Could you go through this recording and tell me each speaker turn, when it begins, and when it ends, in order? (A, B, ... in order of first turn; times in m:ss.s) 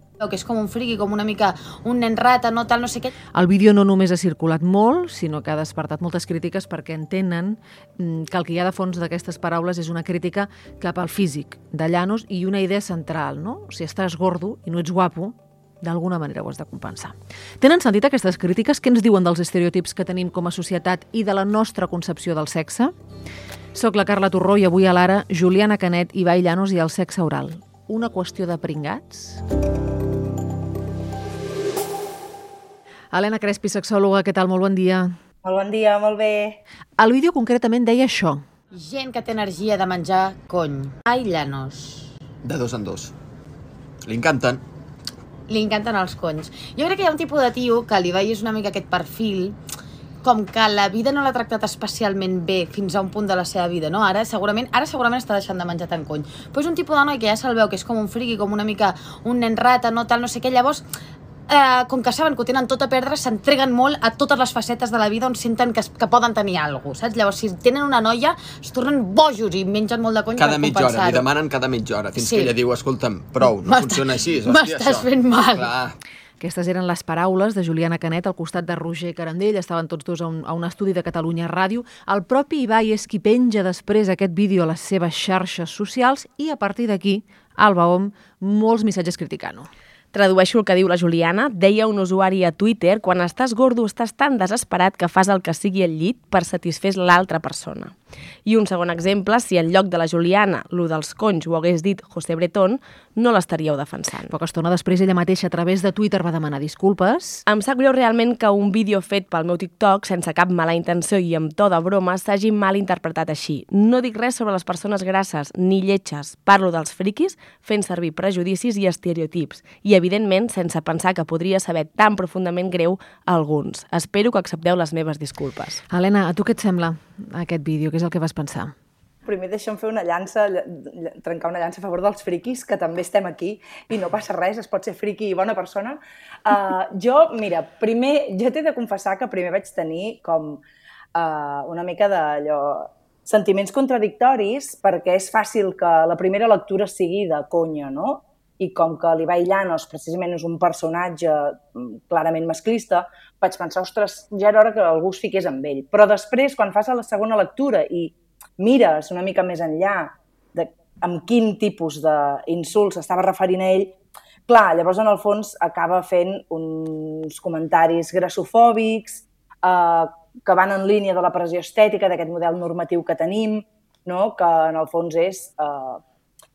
0:00.2-0:03.1 A
0:03.3-0:22.9 B
0:23.7-0:29.4 B
0:33.1-0:35.1 B
0:35.4-0:36.6 C
0:37.0-0:38.4 B
0:38.7-0:42.1 A
0:42.4-0:43.1 D
0:44.1-0:44.6 D
0:45.5-0:49.6 A
0:50.2-1:00.8 A
1:01.5-1:11.3 A
1:10.4-1:16.0 D
1:12.2-1:12.5 A
1:13.4-1:15.7 A
1:16.4-1:29.7 B
1:30.1-1:44.3 E
1:44.3-1:47.4 B
1:47.4-2:05.8 E
2:05.9-2:08.7 B
2:09.2-2:20.6 C
2:21.2-2:44.0 C
2:44.5-2:56.0 C